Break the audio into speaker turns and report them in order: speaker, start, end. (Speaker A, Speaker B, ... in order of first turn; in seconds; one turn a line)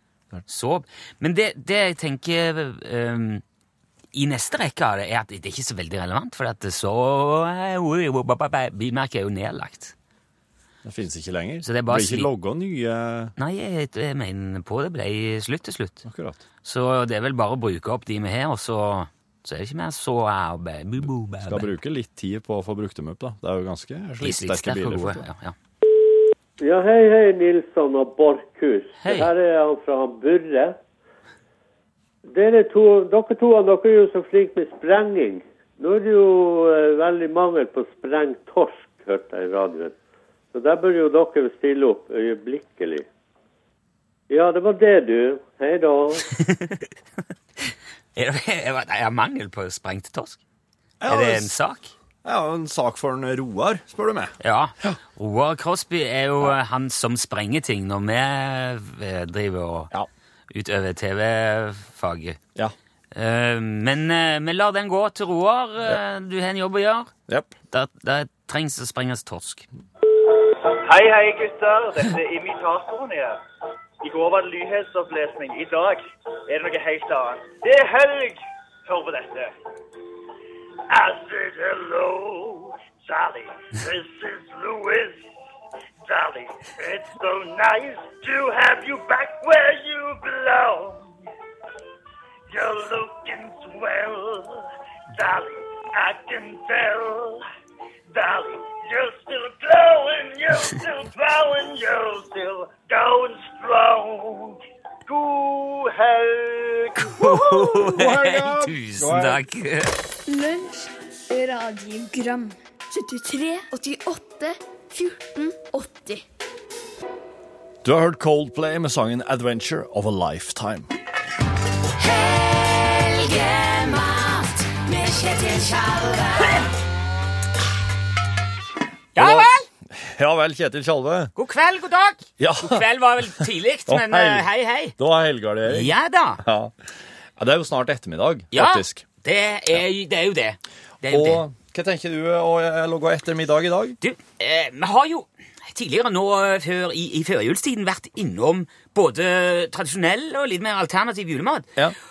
Speaker A: 0.5-3.4
Speaker A: 4.1-9.9
Speaker B: 10.8-13.3
Speaker A: 11.6-12.3
Speaker A: 13.4-16.0
Speaker B: 16.0-16.4
Speaker A: 16.6-21.7
Speaker B: 21.5-25.2
Speaker A: 24.2-25.5
Speaker C: 26.6-30.8
Speaker A: 29.0-29.3
Speaker C: 32.3-39.9
Speaker C: 40.5-43.1
Speaker C: 44.3-46.3
Speaker A: 46.4-46.8
Speaker A: 47.7-50.4
Speaker B: 51.0-51.5
Speaker A: 51.1-51.9
Speaker B: 52.2-55.0
Speaker A: 54.4-59.9
Speaker A: 60.5-62.4
Speaker A: 63.1-67.1
Speaker A: 67.7-69.7
Speaker D: 70.7-73.4
Speaker D: 74.0-79.5
Speaker D: 80.9-85.2
Speaker D: 86.0-91.1
Speaker D: 92.5-94.6
Speaker D: 95.1-97.4
Speaker D: 98.1-107.8
Speaker A: 107.0-109.9
Speaker B: 107.8-109.4
Speaker E: 110.2-116.2
Speaker B: 117.8-120.9
Speaker A: 122.0-126.7
Speaker A: 129.1-129.7
Speaker B: 129.2-131.3
Speaker A: 131.3-135.0
Speaker B: 132.4-132.8
Speaker B: 133.9-136.7
Speaker A: 135.6-136.4
Speaker B: 137.4-139.0
Speaker A: 138.5-141.4
Speaker B: 141.1-144.0
Speaker A: 144.0-151.7